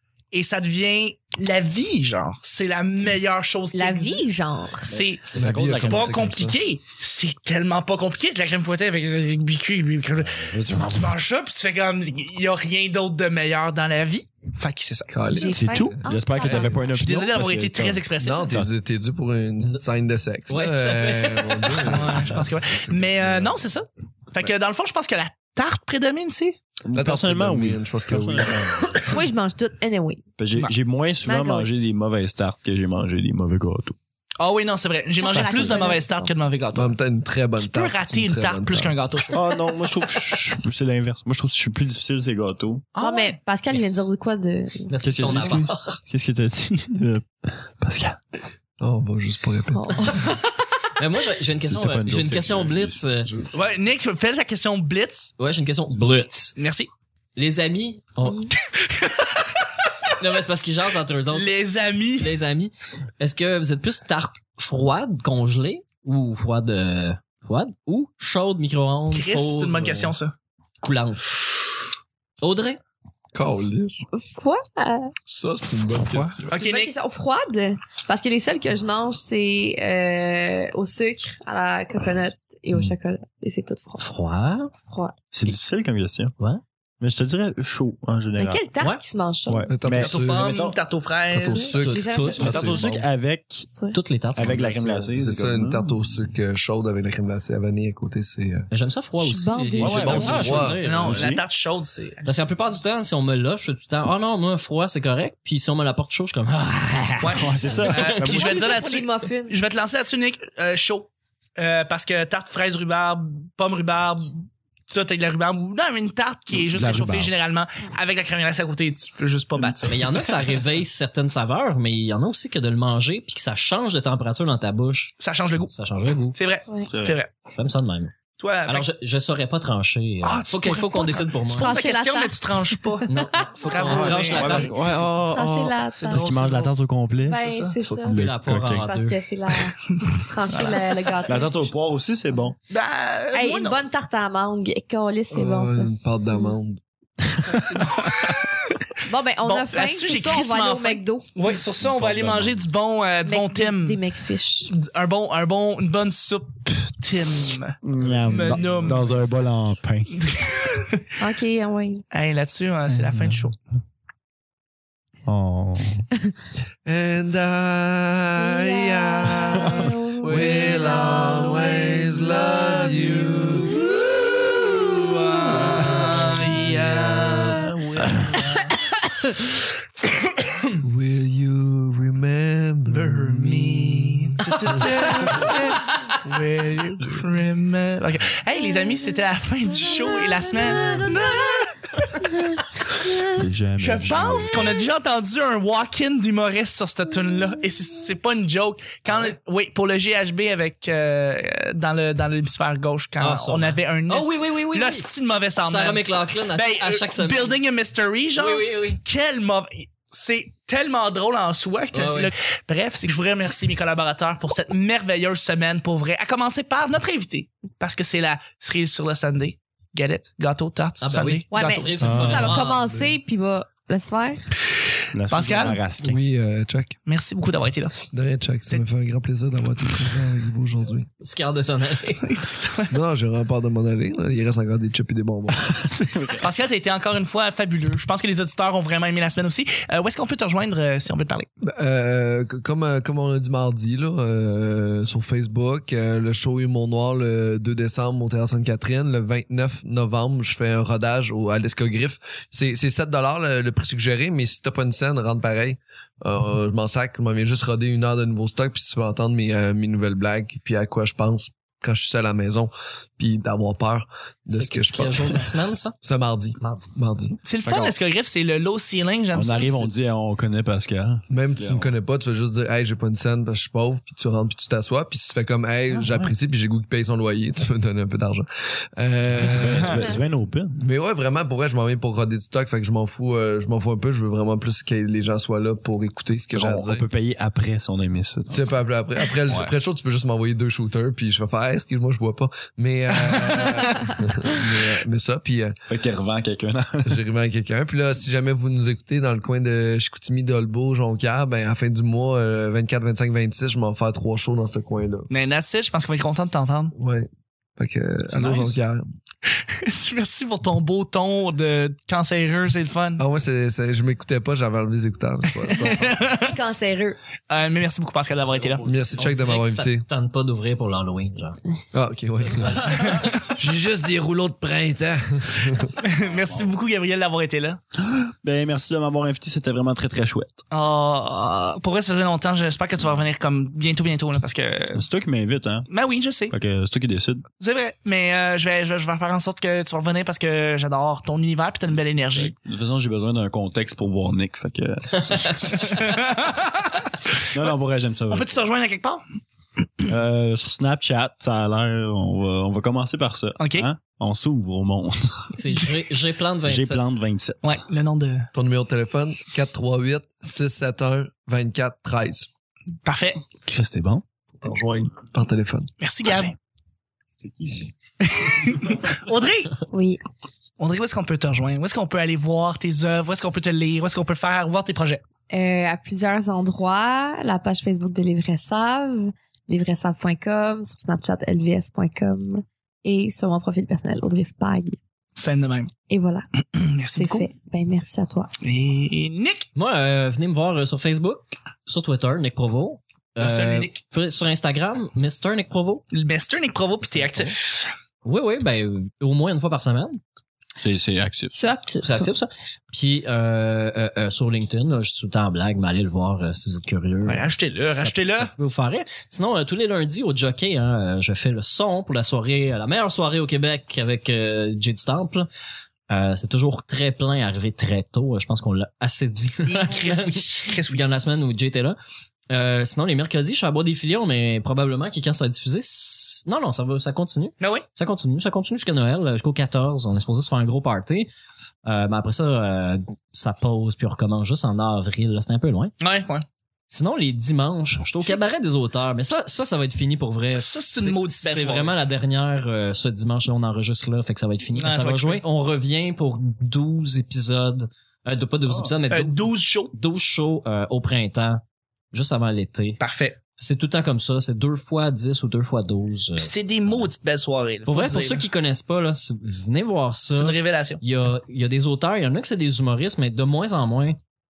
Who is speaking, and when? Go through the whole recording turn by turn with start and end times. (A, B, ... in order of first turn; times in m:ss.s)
0:00.3-0:15.1 A
0:03.7-0:04.9 B
0:04.9-0:06.4 C
0:05.3-0:06.6 D
0:10.2-0:11.2 C
0:15.1-0:16.7 D
0:15.3-0:16.8 B
0:15.4-0:18.7 C
0:16.9-0:18.5 A
0:18.2-0:23.7 D
0:20.5-0:22.2 E
0:21.9-0:26.6 A
0:26.8-0:29.0 C
0:26.9-0:29.2 D
0:29.1-0:30.2 B
0:30.4-0:34.0 C
0:31.2-0:31.7 B
0:34.4-0:36.9 A
0:35.2-0:36.3 B
0:35.3-0:35.8 C
0:36.7-0:39.0 D
0:37.6-0:39.5 A
0:39.3-0:42.9 C
0:42.9-0:43.4 A
0:43.0-0:45.6 B
0:43.8-0:44.0 E
0:44.9-0:45.9 E
0:45.0-0:48.2 C
0:48.8-0:50.2 D
0:49.7-0:50.4 B
0:51.0-0:53.3 E
0:51.6-0:53.0 C
0:53.2-0:53.5 D
0:53.5-0:55.3 A
0:55.4-0:56.6 E
0:56.6-0:56.9 A
0:57.4-0:58.5 E
0:58.5-0:59.7 A
1:00.2-1:01.5 E
1:01.3-1:02.3 A
1:02.2-1:10.1 E
1:09.1-1:10.3 A
1:10.8-1:11.4 E
1:12.4-1:12.8 E
1:13.3-1:14.0 D
1:14.1-1:15.1 B
1:15.3-1:16.5 D
1:16.2-1:16.9 A
1:16.5-1:24.1 B
1:24.0-1:24.7 E
1:24.9-1:25.1 B
1:25.3-1:26.3 C
1:27.0-1:28.6 C
1:28.4-1:29.7 B
1:29.5-1:30.8 C
1:29.7-1:30.5 D
1:29.9-1:31.7 A
1:31.3-1:33.0 D
1:31.5-1:32.9 B
1:31.8-1:32.8 E
1:32.2-1:33.7 C
1:33.7-1:34.0 B
1:33.9-1:35.0 E
1:34.3-1:35.9 C
1:35.1-1:38.7 D
1:38.7-1:41.3 E
1:39.2-1:40.6 B
1:39.8-1:41.4 C
1:39.8-1:40.8 D
1:40.8-1:42.3 A
1:42.2-1:48.2 E
1:47.2-2:00.3 A
1:47.3-1:48.7 C
1:48.2-1:49.5 B
1:56.5-1:57.3 C
1:59.8-2:05.1 E
2:05.2-2:05.7 A
2:05.6-2:06.4 E
2:06.3-2:07.3 A
2:06.9-2:07.2 C
2:07.5-2:08.1 E
2:08.4-2:08.9 A
2:08.6-2:11.8 E
2:10.2-2:13.1 A
2:11.5-2:14.7 B
2:13.0-2:14.8 E
2:13.6-2:14.7 A
2:13.8-2:18.9 C
2:15.3-2:16.3 B
2:15.9-2:16.7 A
2:17.2-2:18.2 B
2:17.4-2:17.8 A
2:18.1-2:19.2 E
2:18.8-2:21.7 B
2:20.0-2:21.2 A
2:21.2-2:22.6 C
2:22.7-2:23.8 A
2:23.3-2:26.5 B
2:25.3-2:26.8 D
2:27.4-2:28.3 C
2:27.6-2:28.7 A
2:29.0-2:31.2 B
2:29.4-2:34.0 A
2:31.8-2:32.6 C
2:33.2-2:34.7 B
2:34.7-2:37.8 A
2:37.8-2:40.2 C
2:38.0-2:39.1 D
2:38.3-2:39.3 A
2:40.1-2:41.1 A
2:41.2-2:42.0 B
2:42.1-2:43.6 A
2:42.9-2:43.4 C
2:45.2-2:46.0 C
2:46.8-2:58.6 D
2:48.4-2:53.1 B
2:49.6-2:49.9 C
2:55.4-2:58.5 A
3:00.8-3:06.3 D
3:02.9-3:12.3 A
3:09.8-3:11.5 B
3:12.2-3:13.3 B
3:13.3-3:14.7 C
3:13.8-3:42.1 A
3:23.2-3:27.6 E
3:28.4-3:29.0 E
3:31.9-3:32.3 E
3:41.0-3:42.9 E
3:41.5-3:44.5 B
3:42.0-3:42.6 C
3:42.6-3:43.1 D
3:45.1-3:46.2 C
3:45.3-3:45.8 A
3:46.0-3:47.0 D
3:47.0-3:48.0 A
3:48.1-3:51.1 D
3:51.2-3:52.3 E
3:52.2-3:52.9 A
3:52.9-3:55.9 D
3:55.8-3:56.5 C
3:56.4-4:01.5 A
4:01.6-4:27.4 D
4:24.5-4:26.0 E
4:26.6-4:26.9 E
4:27.4-4:29.9 A
4:27.6-4:28.0 C
4:29.3-4:31.9 C
4:31.3-4:40.0 D
4:35.9-4:36.3 C
4:39.3-4:40.8 C
4:40.8-4:47.0 D
4:46.5-4:48.7 C
4:48.5-4:55.8 D
4:55.9-4:57.2 C
4:57.0-5:05.3 D
5:05.3-5:06.9 A
5:07.0-5:09.0 D
5:08.4-5:08.7 A
5:09.6-5:13.2 A
5:13.2-5:16.2 D
5:15.7-5:16.6 A
5:16.4-5:17.2 B
5:17.5-5:18.9 A
5:18.4-5:19.2 C
5:18.8-5:20.0 D
5:19.2-5:21.6 E
5:21.9-5:25.9 D
5:22.5-5:23.3 E
5:23.0-5:23.4 A
5:26.0-5:27.8 A
5:26.2-5:26.7 C
5:28.0-5:30.6 C
5:30.7-5:35.0 A
5:34.9-5:35.9 C
5:35.9-5:36.5 A
5:36.5-5:37.4 C
5:37.6-5:42.5 A
5:42.3-5:46.3 C
5:45.9-5:47.4 A
5:47.4-5:48.5 C
5:48.3-5:49.2 A
5:50.1-5:55.6 C
5:53.6-5:53.9 A
5:55.5-5:57.0 E
5:56.6-5:57.8 C
5:57.6-5:58.5 A
5:58.5-6:02.5 D
6:03.0-6:03.4 A
6:03.6-6:04.2 C
6:04.6-6:05.9 D
6:06.0-6:06.6 A
6:08.2-6:09.8 A
6:09.9-6:10.2 B
6:10.8-6:15.2 A
6:15.5-6:25.0 B
6:25.4-6:25.9 A
6:26.1-6:26.4 B
6:26.7-6:27.5 A
6:27.1-6:28.5 B
6:28.6-6:29.7 A
6:29.8-6:36.0 E
6:33.4-6:34.0 A
6:36.1-6:37.9 A
6:37.0-6:37.5 E
6:38.2-6:40.2 E
6:40.8-6:41.6 C
6:41.5-6:42.3 B
6:42.0-6:55.5 E
6:47.2-6:48.5 A
6:56.1-7:02.0 E
6:59.6-7:01.1 A
7:02.5-7:11.3 E
7:07.6-7:07.8 A
7:11.8-7:15.9 E
7:16.0-7:16.4 A
7:16.9-7:33.0 E
7:20.5-7:22.1 A
7:24.7-7:25.4 A
7:29.1-7:29.9 A
7:33.0-7:33.4 A
7:33.5-7:37.1 E
7:36.4-7:38.5 A
7:37.9-7:44.2 E
7:40.3-7:41.0 A